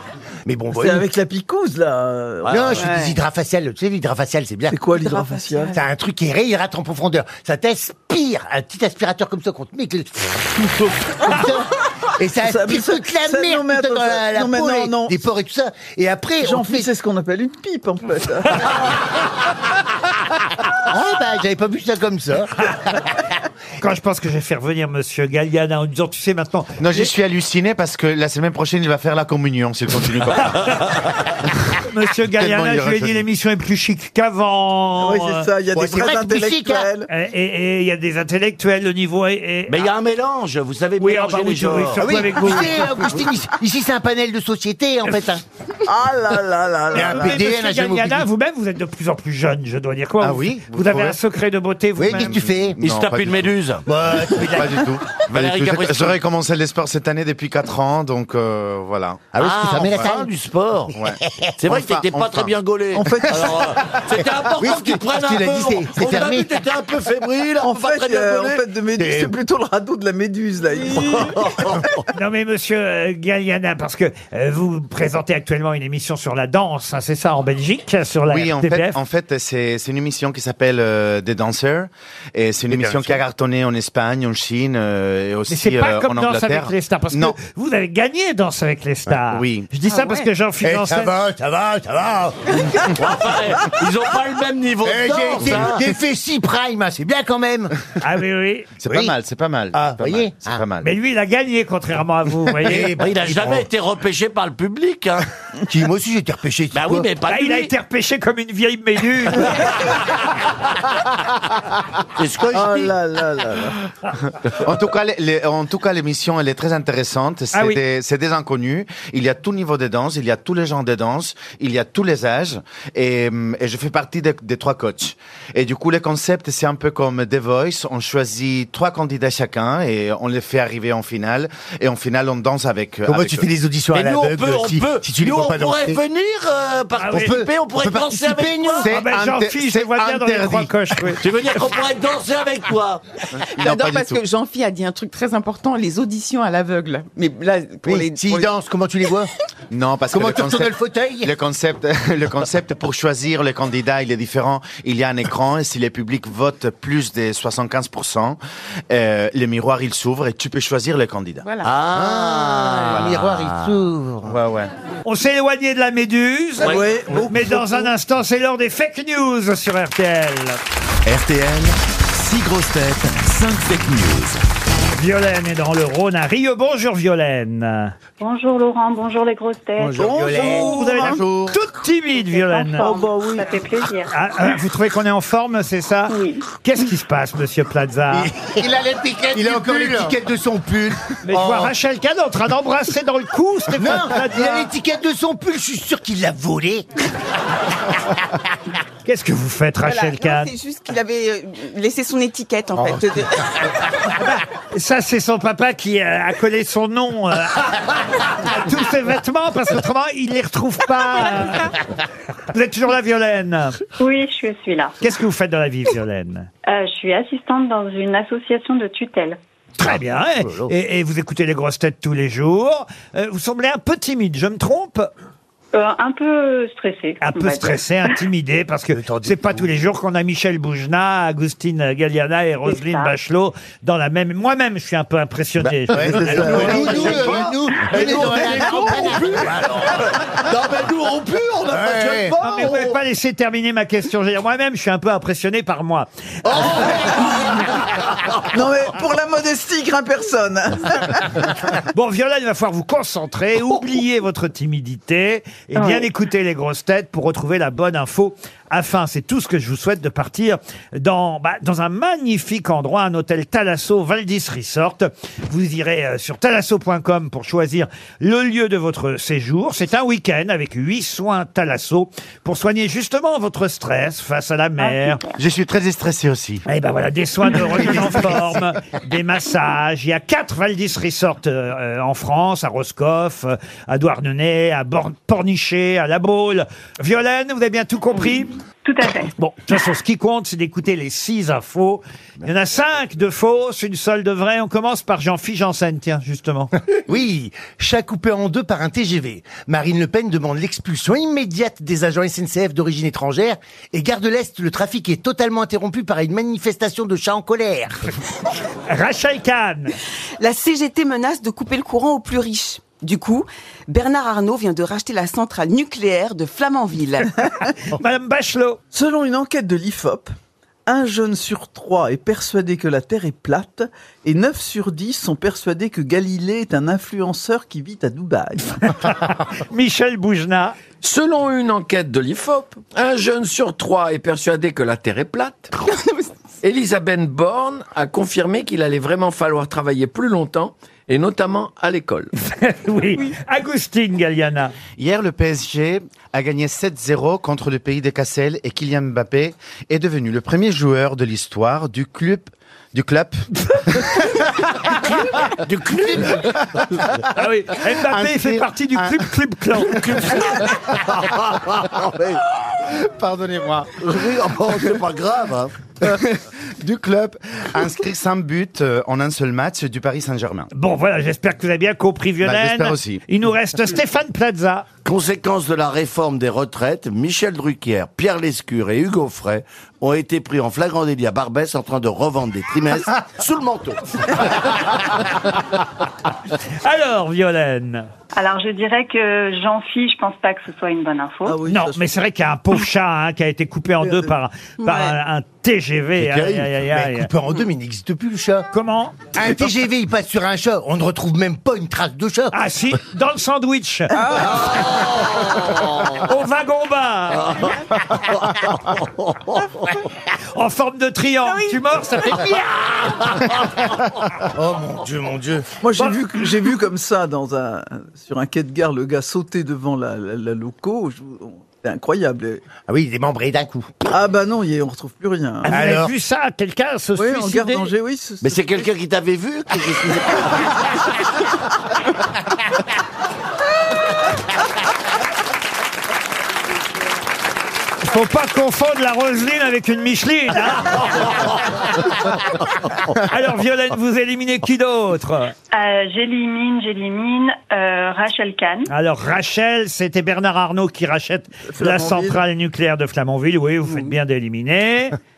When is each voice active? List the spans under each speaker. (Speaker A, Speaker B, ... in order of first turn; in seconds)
Speaker A: 0.4-1.1, 2.5-16.9, 20.9-23.2, 35.7-36.9, 42.0-45.4, 46.9-48.3, 52.0-52.8, 53.9-55.0, 59.3-60.3, 61.2-61.5, 63.8-66.5, 69.0-69.3, 82.7-83.2, 90.6-92.9, 94.8-97.8, 98.8-99.1, 99.7-100.6, 102.6-103.7, 105.7-107.1, 133.1-136.0, 137.1-138.9, 147.8-149.3, 150.1-151.3, 161.9-164.4, 179.8-180.8, 188.1-191.7, 193.7-196.9, 219.8-220.7, 228.9-229.7, 235.6-240.1, 241.7-242.3, 246.6-247.3, 297.1-308.1, 396.9-398.7, 399.3-402.5, 414.4-415.7, 422.9-423.9, 425.7-426.1
Speaker B: 0.7-3.1, 4.7-5.7, 12.4-15.2, 16.4-18.7, 35.0-37.1, 45.9-47.5, 62.9-63.8, 67.6-71.4, 112.5-113.8, 166.6-167.9, 179.9-181.2, 182.8-183.5, 236.0-239.3, 248.5-251.4, 318.9-320.3, 320.9-329.0, 391.4-392.1, 394.0-394.3, 404.2-404.4, 415.8-422.6, 424.1-425.7, 427.1-428.9, 451.7-452.4
Speaker C: 2.5-2.8, 39.7-42.0, 52.8-53.9, 55.3-56.2, 59.4-60.9, 61.6-68.7, 71.0-72.0, 92.8-96.0, 102.6-105.3, 106.7-107.7, 112.2-113.0, 133.9-138.9, 141.2-143.0, 161.6-163.7, 166.6-167.0, 236.4-243.0, 246.4-247.6, 355.0-356.6, 359.9-362.4, 364.0-365.7, 375.0-384.7, 396.2-396.7, 404.5-406.2, 407.4-409.9, 412.8-413.6, 428.4-430.7, 441.0-441.6
Speaker D: 2.8-3.1, 5.1-5.8, 89.9-90.3, 143.5-148.5, 161.4-161.7, 199.8-203.7, 310.4-317.3, 335.8-336.3, 394.8-395.1
Speaker E: 23.8-27.1, 30.5-30.8, 31.8-35.5, 37.1-39.9, 41.0-43.0, 47.0-52.5, 72.1-79.0, 85.5-91.2, 98.0-98.7, 100.8-102.9, 107.3-109.7, 117.5-117.8, 137.0-137.3, 138.8-141.2, 165.0-170.6, 174.9-177.9, 180.7-182.9, 184.1-188.3, 191.2-194.7, 199.0-200.5, 204.2-211.8, 212.4-213.8, 215.0-216.5, 219.8-225.1, 227.2-237.4, 238.2-238.7, 242.4-246.1, 251.9-275.2, 276.6-288.5, 289.4-296.7, 308.9-309.9, 317.9-318.8, 328.9-330.8, 342.4-344.7, 357.3-360.4, 370.7-374.9, 386.8-388.1, 391.7-397.3, 398.7-399.3, 402.5-404.7, 406.1-407.7, 410.5-412.5, 425.6-427.9, 438.0-441.1, 443.2-445.5, 448.9-455.1
Speaker F: 26.8-30.7, 32.3-33.2, 50.2-51.2, 52.0-53.5, 54.1-60.1, 60.9-62.5, 78.3-87.3, 89.1-89.7, 98.8-100.9, 114.6-133.5, 138.8-140.7, 143.6-144.2, 149.7-158.4, 158.9-161.4, 164.2-164.7, 181.0-181.6, 189.4-189.6, 275.4-276.6, 345.0-354.4, 357.9-359.2, 362.8-364.0, 366.0-370.7, 372.4-373.2
Speaker G: 171.1-174.4
Speaker H: 178.2-180.7, 182.3-184.1, 186.1-186.4, 214.0-214.9, 216.7-219.4, 225.7-227.8, 232.7-233.1, 255.7-256.1, 274.8-275.4, 288.8-289.3, 388.3-391.6, 445.7-448.9
Speaker I: 331.0-335.7, 336.6-342.3